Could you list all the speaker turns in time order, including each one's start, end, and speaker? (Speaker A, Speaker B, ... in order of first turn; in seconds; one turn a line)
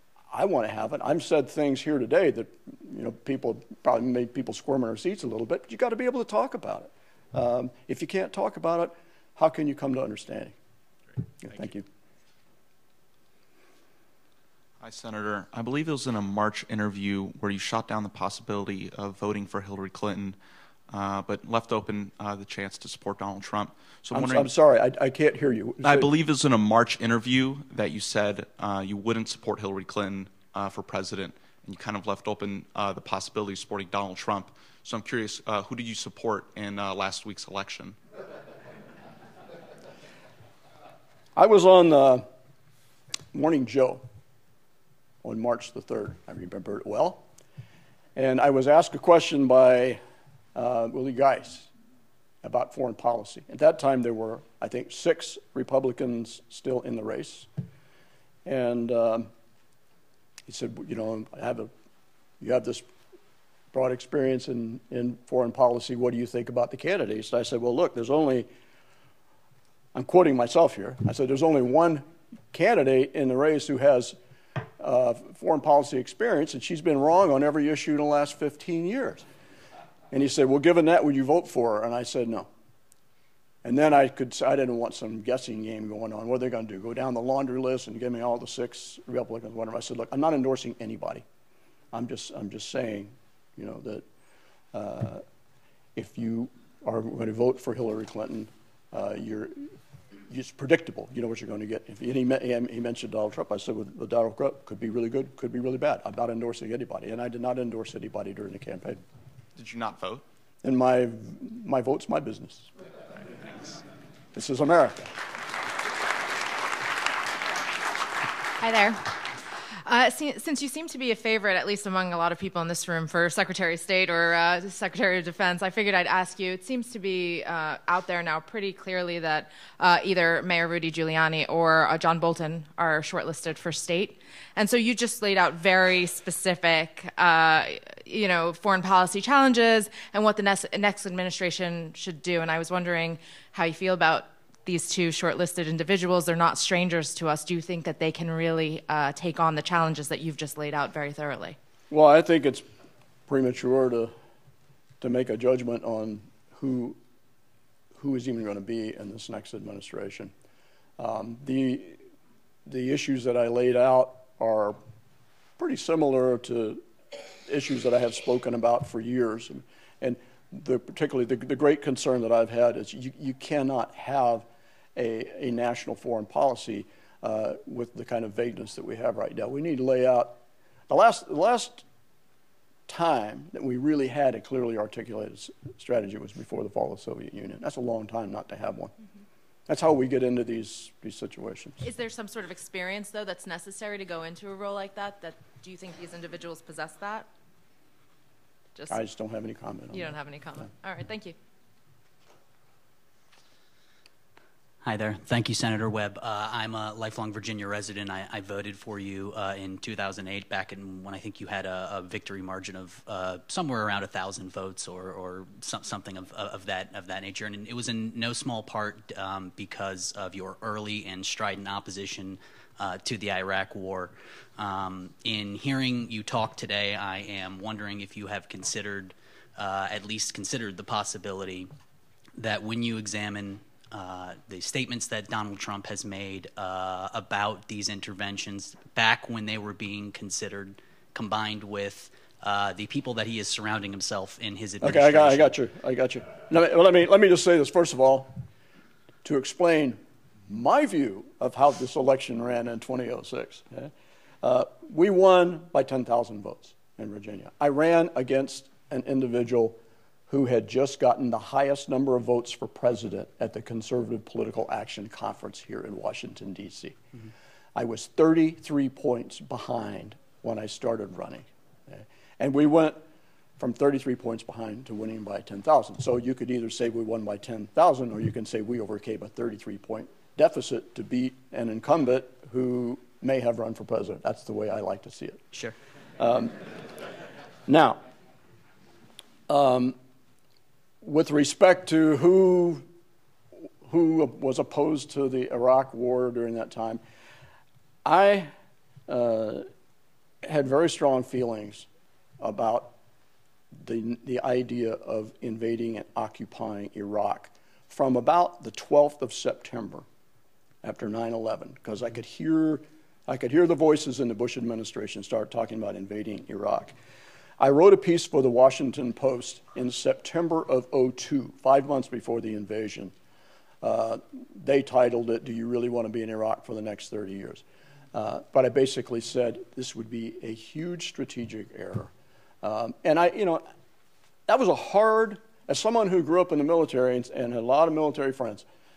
Speaker A: 0.3-10.6
Speaker A: 11.4-11.8
Speaker B: 14.8-20.4
Speaker B: 20.9-24.5
Speaker A: 24.1-26.1
Speaker B: 25.8-38.0
Speaker A: 41.4-42.2
Speaker A: 43.3-44.0
Speaker A: 45.2-47.2
Speaker A: 48.1-50.0
Speaker A: 50.5-51.7
Speaker A: 52.4-57.5
Speaker A: 58.4-59.3
Speaker A: 60.5-61.7
Speaker A: 62.4-62.9
Speaker A: 63.7-68.5
Speaker A: 69.9-74.2
Speaker A: 74.8-79.2
Speaker A: 80.1-82.5
Speaker A: 83.6-91.2
Speaker A: 91.9-94.0
Speaker A: 94.7-95.2
Speaker A: 96.0-99.7
Speaker A: 100.3-109.0
Speaker B: 109.5-110.2
Speaker A: 110.6-112.7
Speaker A: 114.3-115.1
Speaker C: 118.6-119.1
Speaker C: 119.8-151.6
Speaker A: 151.9-152.7
Speaker A: 153.3-154.1
Speaker A: 155.0-157.0
Speaker A: 158.0-160.3
Speaker A: 161.0-162.0
Speaker A: 162.7-164.8
Speaker A: 165.6-166.8
Speaker A: 167.4-181.8
Speaker A: 182.9-188.9
Speaker A: 189.7-191.8
Speaker C: 191.8-197.3
Speaker A: 198.9-200.2
Speaker C: 199.9-201.3
Speaker D: 204.8-231.7
Speaker D: 232.3-245.6
Speaker A: 244.8-248.4
Speaker A: 249.2-267.0
Speaker A: 267.7-273.0
Speaker A: 273.6-285.4
Speaker A: 286.2-286.6
Speaker A: 287.7-288.0
Speaker A: 289.5-289.9
Speaker A: 291.0-292.8
Speaker A: 293.8-297.0
Speaker A: 298.0-298.5
Speaker A: 299.1-299.7
Speaker A: 300.4-301.9
Speaker A: 302.4-302.9
Speaker A: 303.8-310.1
Speaker A: 310.8-316.9
Speaker A: 317.6-323.1
Speaker A: 323.8-327.6
Speaker A: 328.1-333.6
Speaker A: 334.5-338.6